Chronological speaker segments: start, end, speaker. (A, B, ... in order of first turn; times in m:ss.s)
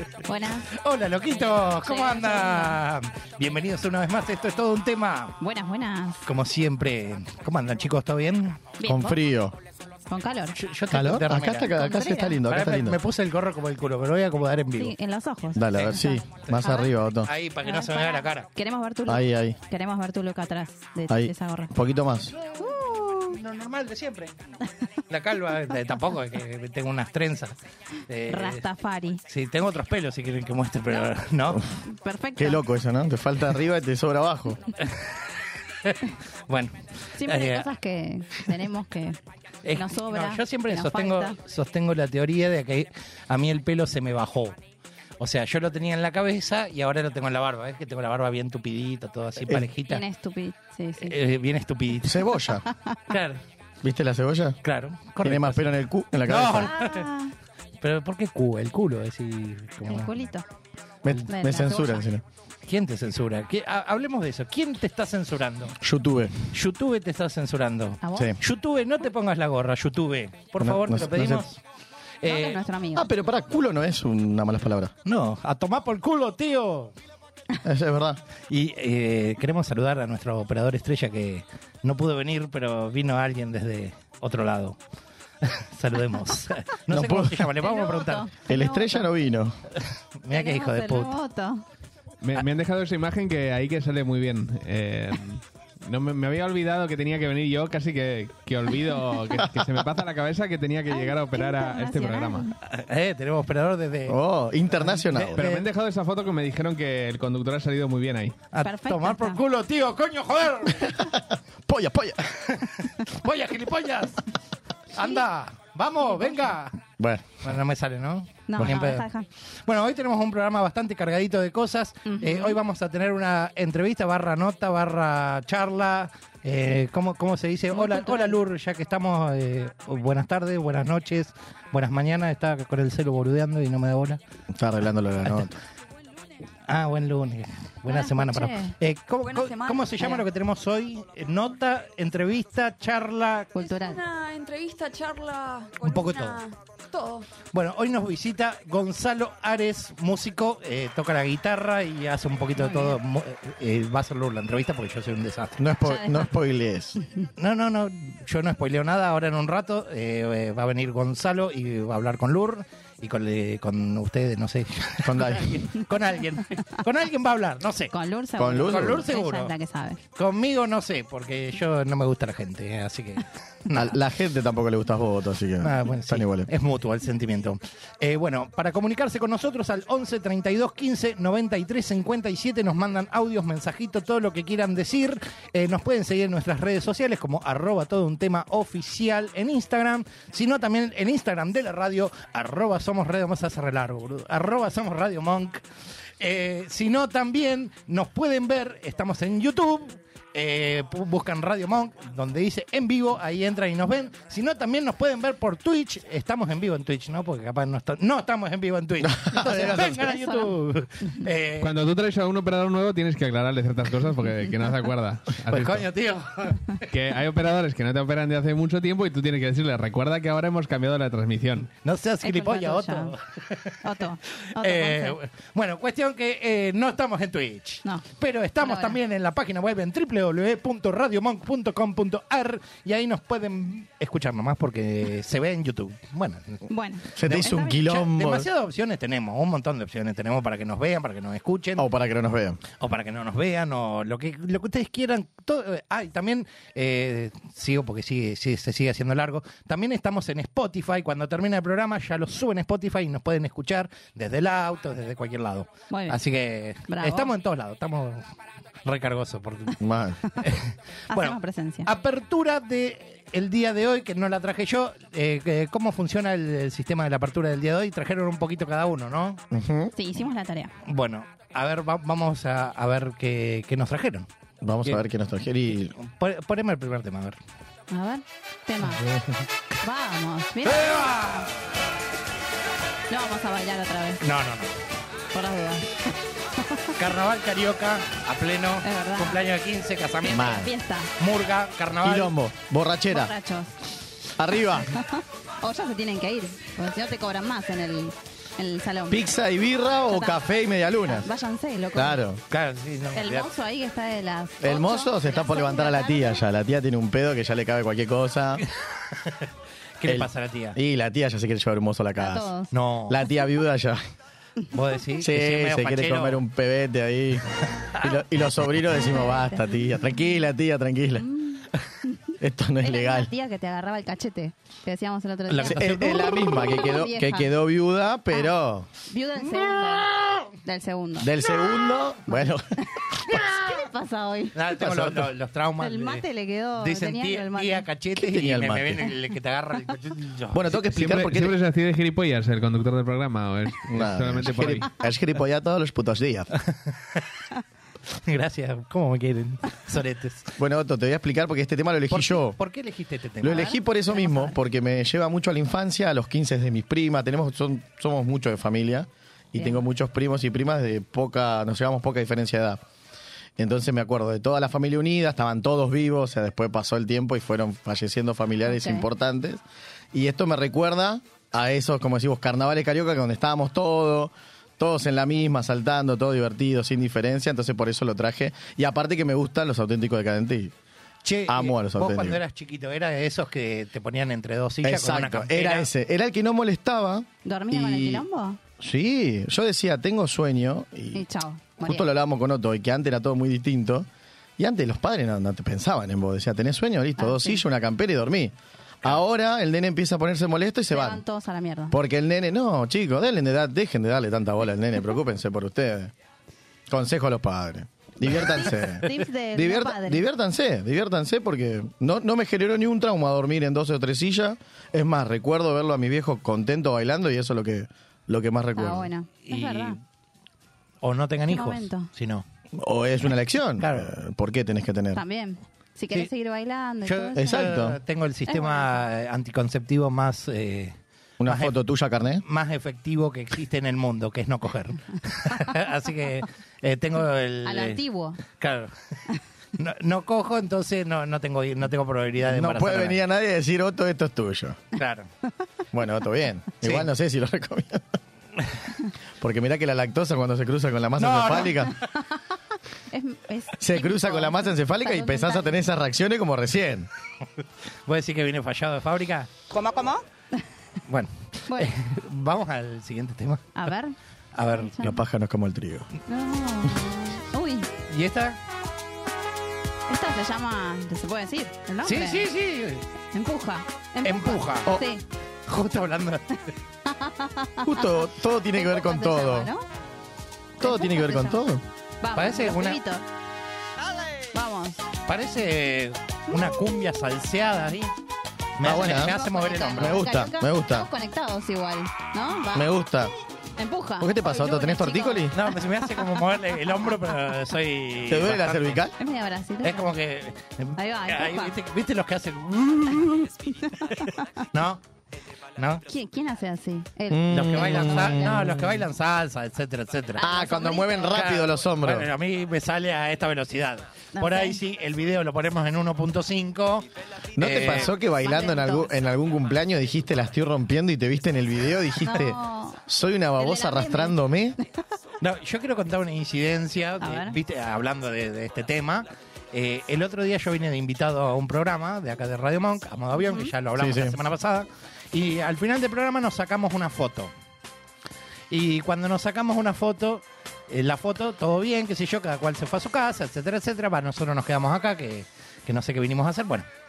0:00.2-0:00.7 A
0:00.8-0:05.4 B
0:01.8-0:02.8 A
0:05.4-0:06.2 A
0:06.2-0:08.7 B
0:08.8-0:09.2 A
0:08.8-0:09.6 C
0:10.1-0:10.6 A
0:10.6-0:11.8 B
0:10.9-0:13.0 C
0:11.7-0:12.4 A
0:12.5-0:14.9 B
0:14.8-0:16.8 A
0:15.5-0:17.3 C
0:16.4-0:18.5 B
0:17.6-0:21.7 A
0:19.1-0:19.6 C
0:21.1-0:22.3 C
0:22.6-0:23.4 A
0:23.3-0:24.4 B
0:25.1-0:27.5 B
0:28.1-0:28.6 B
0:28.3-0:29.2 A
0:29.3-0:31.6 B
0:31.8-0:32.6 A
0:32.4-0:34.6 C
0:34.8-0:35.1 B
0:35.8-0:37.7 B
0:37.2-0:39.2 A
0:39.6-0:44.6 B
0:39.8-0:41.4 A
0:45.2-0:50.0 B
0:49.9-0:51.2 A
0:51.0-0:52.3 B
0:52.0-0:52.6 C
0:52.7-0:53.0 A
0:53.1-0:53.4 B
0:53.8-0:54.6 C
0:54.6-0:55.7 B
0:55.2-0:56.7 C
0:56.3-0:57.1 B
0:56.6-0:57.3 A
0:57.8-1:00.1 B
0:59.8-1:00.4 A
1:01.0-1:02.2 C
1:01.3-1:02.1 A
1:02.7-1:05.8 B
1:05.8-1:06.3 C
1:06.5-1:11.6 B
1:08.0-1:08.3 A
1:10.6-1:11.4 C
1:12.2-1:12.6 B
1:12.2-1:13.1 A
1:12.9-1:14.9 C
1:15.0-1:16.9 B
1:17.6-1:18.2 C
1:18.5-1:24.8 B
1:25.4-1:28.3 B
1:26.9-1:27.5 C
1:27.6-1:29.1 A
1:28.5-1:29.6 C
1:30.2-1:31.2 B
1:30.3-1:31.6 A
1:32.2-1:42.5 D
1:40.9-1:42.5 A
1:42.6-1:44.2 B
1:44.1-1:45.4 C
1:44.7-1:45.7 B
1:45.3-1:48.4 D
1:48.5-1:50.9 B
1:48.6-1:49.4 A
1:51.3-1:52.2 C
1:52.4-1:54.2 B
1:54.9-1:56.8 B
1:56.1-1:56.4 A
1:57.0-1:57.4 C
1:57.4-1:59.0 B
1:58.5-1:59.3 A
1:59.6-2:14.2 B
2:02.0-2:02.6 A
2:07.7-2:08.4 A
2:14.5-2:15.6 C
2:16.7-2:23.5 B
2:17.9-2:18.8 A
2:19.2-2:20.2 E
2:23.5-2:24.0 A
2:23.6-2:27.3 E
2:25.8-2:26.4 B
2:27.5-2:35.6 B
2:32.5-2:33.0 A
2:35.6-2:37.0 C
2:35.8-2:36.3 A
2:37.4-2:47.9 B
2:45.0-2:45.6 C
2:47.9-2:50.0 A
2:48.4-2:49.0 C
2:48.6-2:49.5 B
2:50.2-2:54.0 B
2:53.7-2:56.5 C
2:55.6-3:15.6 B
3:16.2-3:31.7 B
3:29.0-3:30.0 C
3:30.0-3:30.5 A
3:31.6-3:35.9 D
3:35.5-3:36.8 B
3:36.9-3:41.7 D
3:41.8-3:43.8 B
3:42.2-3:43.1 A
3:43.8-3:45.2 A
3:44.6-3:56.6 B
3:48.6-3:49.0 A
3:56.7-3:57.7 A
3:57.2-3:58.5 C
3:57.2-4:01.8 B
4:01.8-4:02.6 C
4:02.8-4:18.2 B
4:15.9-4:16.2 A
4:16.9-4:17.3 A
4:18.8-4:19.8 B
4:19.8-4:20.2 C
4:20.4-4:29.4 B
4:21.1-4:21.9 A
4:29.5-4:29.9 C
4:29.9-4:30.7 A
4:30.8-4:34.3 B
4:34.6-4:35.9 C
4:36.0-4:37.4 B
4:37.9-4:39.1 A
4:38.9-4:39.3 C
4:39.8-4:41.1 A
4:40.7-4:41.4 B
4:43.1-4:44.2 A
4:44.2-4:44.8 B
4:45.3-4:46.1 A
4:46.6-4:46.9 A
4:47.0-4:50.6 B
4:48.8-4:49.4 A
4:50.2-4:50.7 C
4:50.2-4:51.1 A
4:51.2-4:52.3 B
4:52.0-4:53.3 C
4:53.1-4:53.8 A
4:54.4-4:54.9 C
4:54.9-4:59.3 A
4:59.1-5:01.3 C
5:00.1-5:00.4 A
5:01.0-5:02.2 A
5:01.9-5:02.4 C
5:02.5-5:03.5 B
5:03.1-5:06.4 A
5:04.6-5:08.6 C
5:09.1-5:09.4 B
5:10.0-5:10.8 B
5:10.0-5:12.5 C
5:12.2-5:12.7 A
5:12.7-5:13.2 B
5:13.1-5:14.0 C
5:14.7-5:16.4 B
5:15.2-5:21.2 C
5:19.0-5:19.6 A
5:21.2-5:22.2 A
5:22.4-5:23.3 C
5:22.8-5:27.5 A
5:25.5-5:26.6 B
5:25.6-5:28.9 C
5:29.1-5:30.1 A
5:29.4-5:30.5 B
5:30.6-5:31.3 A
5:31.2-5:32.6 C
5:33.0-5:34.6 A
5:34.5-5:36.2 B
5:34.8-5:35.3 C
5:35.8-5:37.9 A
5:36.8-5:40.9 B
5:38.2-5:39.1 C
5:40.5-5:41.6 C
5:40.9-5:44.9 D
5:43.9-5:46.5 C
5:48.2-5:50.5 B
5:50.6-5:52.6 C
5:52.1-5:53.7 B
5:53.4-6:02.8 C
5:53.4-5:54.6 A
5:59.6-5:59.8 A
6:03.6-6:09.6 C
6:08.6-6:09.0 A
6:10.1-6:20.7 C
6:21.2-6:25.9 B
6:21.5-6:22.4 C
6:24.8-6:28.2 C
6:27.4-6:28.6 A
6:28.8-6:31.2 C
6:31.1-6:32.0 A
6:31.8-6:34.1 C
6:34.6-6:41.2 C
6:37.2-6:37.6 A
6:40.9-6:42.0 A
6:41.9-6:46.1 C
6:46.9-6:59.1 C
6:48.3-6:50.2 A
6:58.8-7:00.0 A
6:59.5-7:00.0 B
7:01.0-7:02.4 B
7:01.5-7:02.1 A
7:02.8-7:05.2 C
7:03.8-7:04.1 B
7:05.1-7:07.7 A
7:07.0-7:11.7 B
7:07.4-7:08.0 C
7:08.5-7:09.0 A
7:11.4-7:12.4 C
7:12.4-7:18.9 B
7:17.6-7:18.4 A
7:19.8-7:23.2 B
7:22.4-7:24.8 C
7:25.0-7:25.3 B
7:25.9-7:28.1 C
7:26.8-7:27.1 B
7:29.4-7:31.9 C
7:31.2-7:31.9 B
7:33.1-7:35.7 A
7:33.8-7:37.1 C
7:38.1-7:39.6 B
7:39.7-7:40.2 A
7:41.1-7:43.7 B
7:43.7-7:44.1 A
7:44.5-7:45.2 B
7:44.8-7:45.2 A
7:45.0-7:46.1 C
7:46.3-7:47.9 A
7:48.1-7:48.6 B
7:50.1-7:52.5 A
7:52.0-7:53.0 B
7:53.3-7:55.2 A
7:54.2-7:54.9 B
7:55.7-7:56.6 B
7:57.1-7:58.0 A
7:57.8-7:59.7 C
7:58.7-7:59.8 A
8:00.8-8:01.8 C
8:00.8-8:01.6 A
8:02.2-8:03.2 A
8:02.4-8:03.0 B
8:04.5-8:05.0 A
8:05.2-8:08.1 B
8:08.8-8:10.4 B
8:08.8-8:09.4 C
8:08.9-8:12.9 A
8:09.9-8:11.1 C
8:12.7-8:13.3 C
8:13.8-8:15.5 A
8:14.2-8:15.6 C
8:15.5-8:19.0 B
8:18.3-8:19.1 C
8:19.2-8:20.1 A
8:19.8-8:23.9 B
8:21.0-8:21.7 A
8:24.7-8:25.0 B
8:25.8-8:26.0 B
8:26.0-8:28.7 A
8:27.3-8:28.9 C
8:27.5-8:30.5 B
8:30.4-8:31.4 A
8:30.4-8:32.3 C
8:31.3-8:38.1 B
8:34.3-8:34.8 A
8:37.6-8:44.8 C
8:38.2-8:39.1 A
8:42.2-8:43.0 A
8:43.6-8:44.4 A
8:45.4-8:57.5 B
8:47.2-8:47.6 A
8:53.4-8:53.7 A
8:54.0-8:54.4 C
8:58.7-9:06.9 B